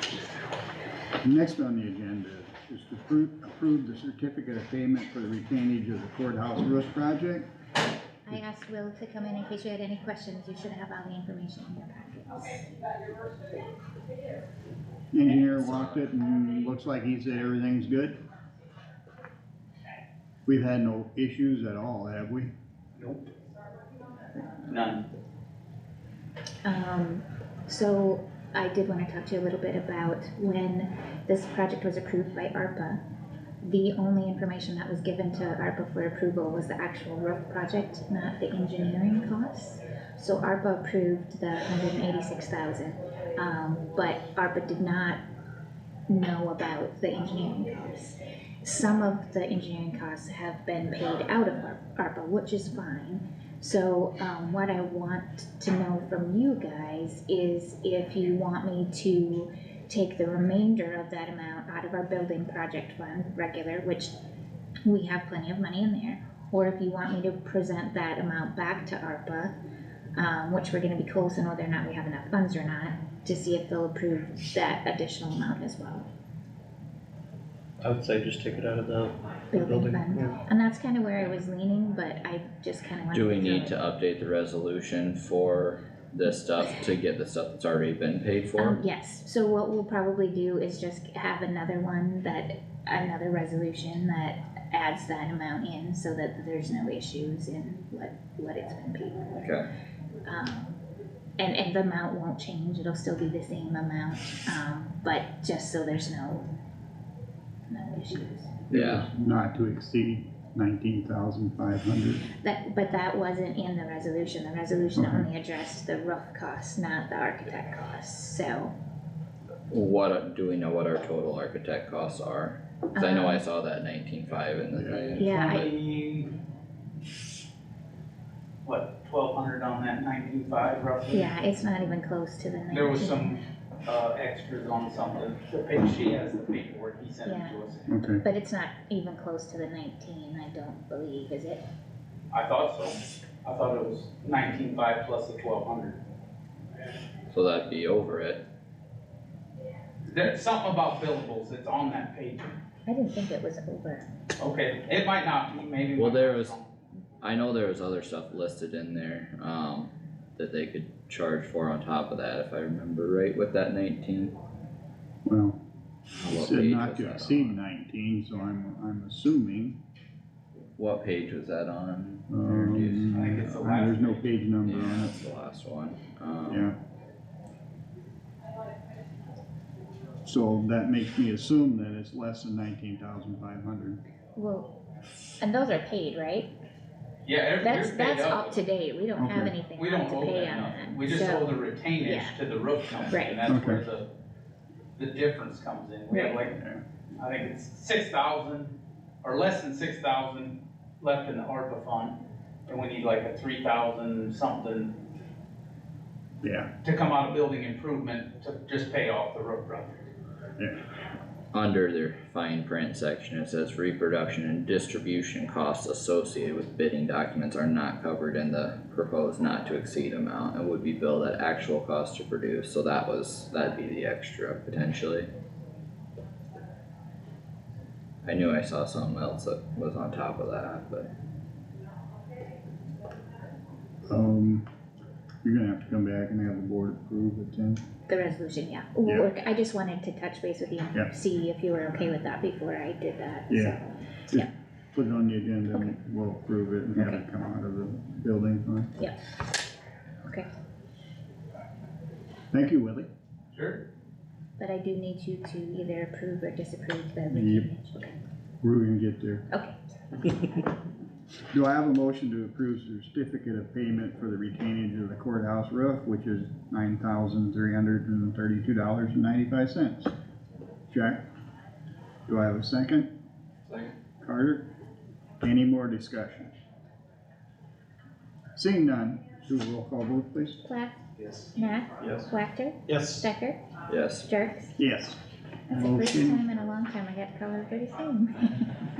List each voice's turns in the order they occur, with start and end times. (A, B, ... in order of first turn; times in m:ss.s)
0:01.2-0:07.5 A
0:08.2-0:12.7 B
0:15.1-0:18.2 A
0:15.4-0:16.1 C
0:20.4-0:22.5 A
0:23.0-0:23.3 D
0:24.6-0:25.1 D
0:26.6-0:33.0 B
0:33.6-0:45.2 B
0:46.1-1:04.1 B
1:04.8-1:09.5 B
1:10.1-1:16.1 B
1:17.8-1:20.4 E
1:19.5-1:23.7 B
1:23.1-1:28.8 C
1:28.6-1:39.5 B
1:39.4-1:39.7 C
1:40.2-1:40.8 B
1:41.4-1:46.5 B
1:47.7-1:48.5 B
1:48.7-1:52.3 A
1:48.7-1:49.1 C
1:52.4-1:58.7 B
1:55.0-1:55.3 A
1:59.7-2:05.6 C
2:02.9-2:03.4 B
2:04.8-2:05.0 A
2:05.2-2:05.7 B
2:05.2-2:06.3 D
2:08.6-2:11.3 D
2:11.1-2:13.3 B
2:12.7-2:17.9 D
2:17.2-2:17.6 B
2:17.9-2:18.2 A
2:18.2-2:21.6 B
2:22.3-2:26.0 D
2:27.3-2:28.4 C
2:30.1-2:32.6 D
2:32.9-2:34.1 B
2:34.4-2:36.7 D
2:36.0-2:36.6 C
2:37.2-2:44.4 C
2:45.2-2:45.6 A
2:46.2-2:47.6 C
2:46.2-2:49.8 A
2:50.8-2:53.8 C
2:52.3-2:55.1 A
2:53.1-2:54.3 D
2:54.6-2:56.7 C
2:56.5-2:56.8 A
3:00.2-3:04.0 A
3:04.4-3:04.7 B
3:05.4-3:06.5 B
3:07.2-3:08.6 D
3:07.6-3:12.4 B
3:09.2-3:09.6 A
3:09.7-3:14.1 D
3:13.1-3:13.4 B
3:13.4-3:13.8 A
3:15.0-3:16.5 D
3:16.1-3:16.4 B
3:16.5-3:16.8 A
3:17.2-3:25.0 D
3:26.4-3:26.7 A
3:26.8-3:30.0 D
3:31.5-3:45.3 C
3:48.2-3:51.1 C
3:54.1-3:54.6 A
3:55.4-3:57.8 A
3:58.1-4:04.5 B
4:03.5-4:03.8 A
4:04.3-4:08.9 A
4:07.0-4:07.2 B
4:12.5-4:13.1 A
4:13.5-4:13.8 D
4:14.6-4:18.2 B
4:17.3-4:17.7 A
4:18.6-4:19.4 A
4:19.5-4:19.8 B
4:21.5-4:30.1 A
4:30.9-4:31.2 A
4:32.3-4:33.1 A
4:34.2-4:34.6 A
4:35.4-4:36.5 A
4:38.5-4:40.6 A
4:40.6-4:41.0 B
4:41.5-4:43.6 B
4:42.9-4:43.2 E
4:43.9-4:44.2 C
4:44.2-4:44.8 B
4:44.8-4:45.2 A
4:45.7-4:48.7 B
4:45.7-4:46.4 A